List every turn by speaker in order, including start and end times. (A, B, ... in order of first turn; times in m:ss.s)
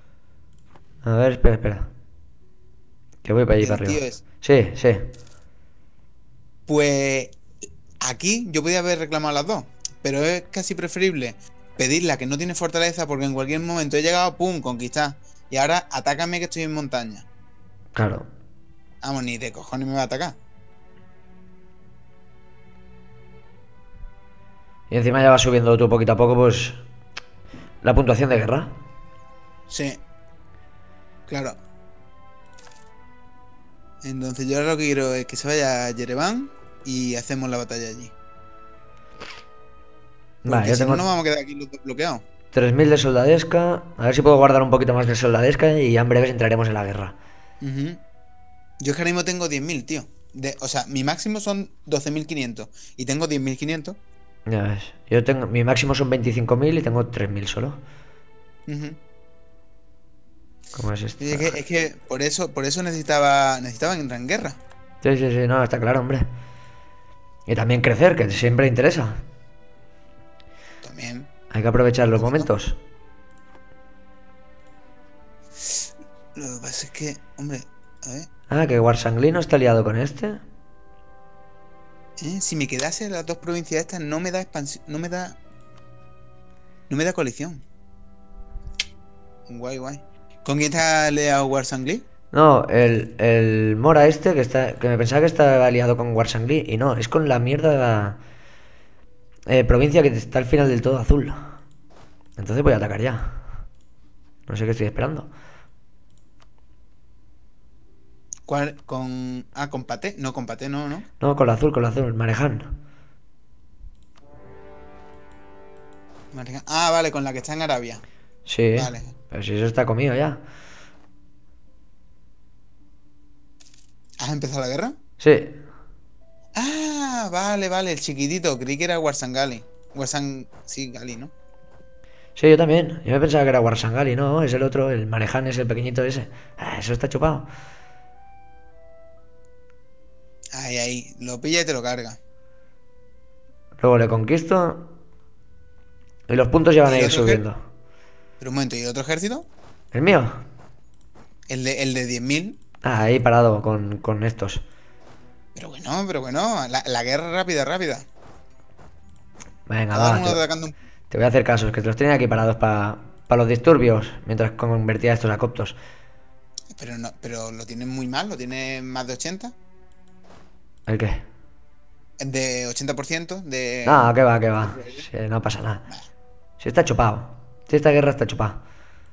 0:01.0-0:01.9 A
0:03.2-0:05.0 A
0:03.6-0:04.2 B
0:06.7-0:07.4 B
0:08.0-0:17.3 B
0:18.0-0:18.3 A
0:19.0-0:20.4 B
0:24.9-0:26.8 A
0:27.8-0:28.7 A
0:29.7-0:30.0 B
0:31.3-0:31.6 B
0:34.0-0:38.1 B
0:40.4-0:42.2 B
0:40.5-0:41.0 A
0:42.5-0:47.2 A
0:47.6-0:48.0 B
0:48.8-0:54.0 B
0:54.5-0:57.8 A
0:58.7-0:59.0 B
1:00.8-1:01.6 A
1:01.2-1:04.6 B
1:05.0-1:06.3 A
1:07.5-1:09.2 A
1:10.8-1:11.3 B
1:11.5-1:12.8 A
1:12.2-1:12.5 B
1:15.6-1:18.3 B
1:18.5-1:20.4 A
1:22.2-1:25.4 B
1:26.9-1:27.6 B
1:29.5-1:32.0 B
1:32.3-1:38.2 A
1:39.5-1:41.4 A
1:42.4-1:43.5 A
1:44.5-1:45.3 A
1:48.5-1:51.1 B
1:51.2-1:52.7 A
1:56.3-1:58.0 B
1:58.5-2:00.4 A
1:58.8-1:59.2 B
2:04.2-2:05.0 B
2:05.2-2:05.6 A
2:06.6-2:11.3 B
2:12.4-2:17.5 A
2:20.5-2:22.2 B
2:23.8-2:24.9 A
2:26.3-2:27.6 A
2:26.9-2:27.4 B
2:28.4-2:29.5 B
2:29.9-2:30.4 A
2:31.5-2:32.6 B
2:32.8-2:34.6 A
2:35.6-2:38.1 B
2:39.7-2:40.4 A
2:39.9-2:40.7 B
2:41.1-2:45.8 A
2:46.7-2:49.6 B
2:50.9-2:51.2 A
2:52.2-2:55.0 B
2:53.9-2:55.9 A
2:56.6-2:58.6 A